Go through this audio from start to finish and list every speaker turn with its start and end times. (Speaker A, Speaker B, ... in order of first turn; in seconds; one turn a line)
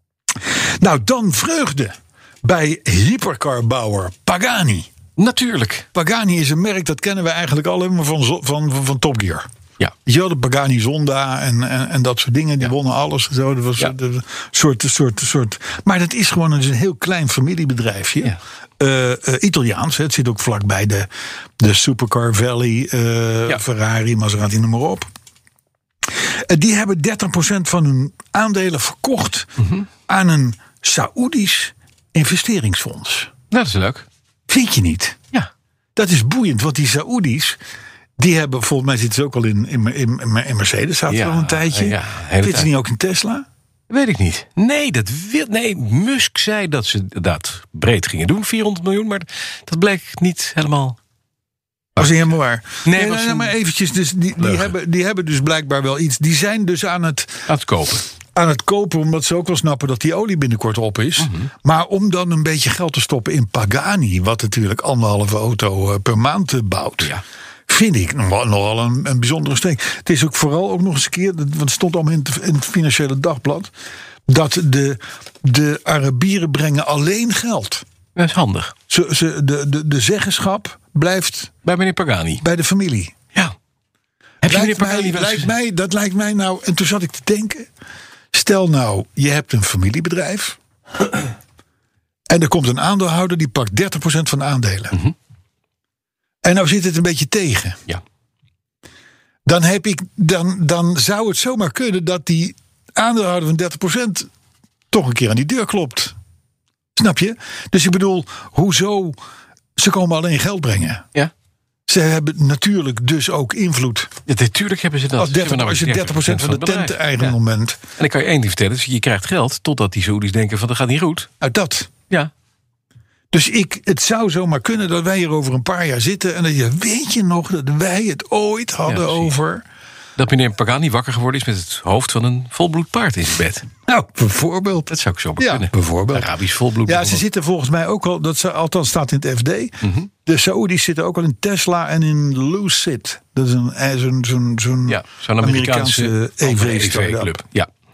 Speaker A: 0.5-4.9
Speaker B: 5.2-5.8
Speaker A: 5.9-9.5
Speaker A: 10.1-25.1
Speaker A: 26.1-33.3
Speaker B: 29.6-29.9
Speaker B: 33.5-34.1
Speaker A: 34.5-35.2
Speaker A: 36.0-37.6
Speaker A: 38.2-43.5
Speaker B: 41.1-42.7
Speaker B: 43.9-51.0
Speaker B: 52.0-52.2
Speaker A: 52.0-57.5
Speaker B: 52.8-53.5
Speaker B: 54.4-54.7
Speaker B: 57.5-58.0
Speaker A: 58.3-67.1
Speaker B: 61.2-61.5
Speaker A: 67.7-73.7
Speaker A: 74.3-77.8
Speaker B: 78.2-78.7
Speaker A: 78.9-81.5
Speaker B: 81.6-82.4
Speaker A: 82.4-83.1
Speaker B: 84.4-85.5
Speaker A: 84.4-87.7
Speaker A: 88.3-90.6
Speaker A: 92.3-95.0
Speaker A: 96.4-97.8
Speaker A: 99.5-104.3
Speaker A: 104.9-106.1
Speaker A: 107.0-109.2
Speaker A: 109.8-111.0
Speaker A: 111.9-114.1
Speaker B: 114.3-117.3
Speaker A: 115.2-117.8
Speaker B: 118.0-121.3
Speaker A: 121.4-121.9
Speaker A: 123.3-129.6
Speaker B: 128.8-129.3
Speaker B: 130.2-133.7
Speaker A: 133.9-136.3
Speaker B: 134.9-137.2
Speaker A: 136.8-147.4
Speaker B: 139.8-140.1
Speaker B: 144.8-147.7